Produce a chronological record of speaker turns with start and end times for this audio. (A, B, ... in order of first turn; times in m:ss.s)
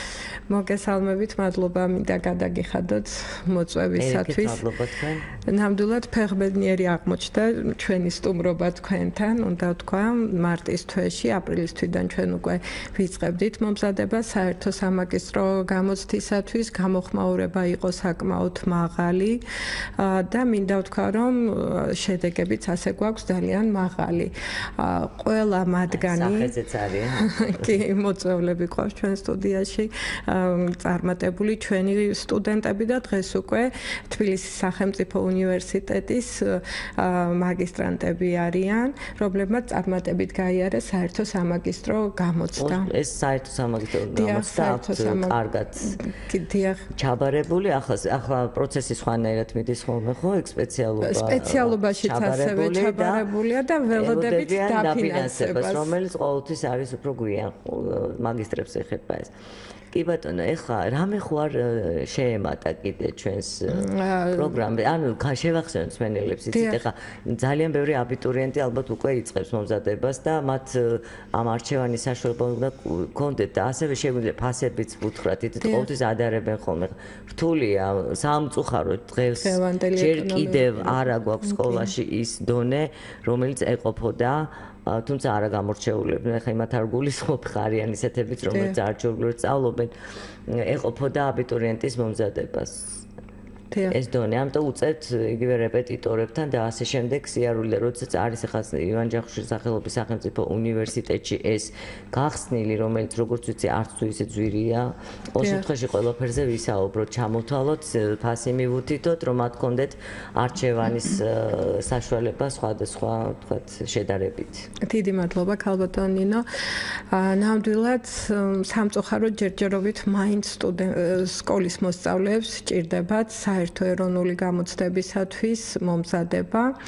0:00.5-0:04.6 A
0:04.0-0:05.3 B
0:05.4-0:19.4 A
0:20.0-0:26.6 A
0:25.9-0:27.8 B
0:27.2-0:42.9 A
0:42.6-0:46.0 B
0:44.1-0:46.9 A
0:46.9-0:53.2 B
0:51.0-0:55.9 A
0:53.9-0:59.3 B
0:59.9-1:29.9 B
1:03.7-1:04.6 A
1:06.5-1:06.8 A
1:15.6-1:15.9 A
1:19.4-1:21.9 A
1:28.5-1:28.8 A
1:30.5-1:33.0 B
1:33.7-1:34.0 A
1:33.9-1:54.7 B
1:45.4-1:45.6 A
1:54.8-1:56.4 A
1:57.1-2:06.8 A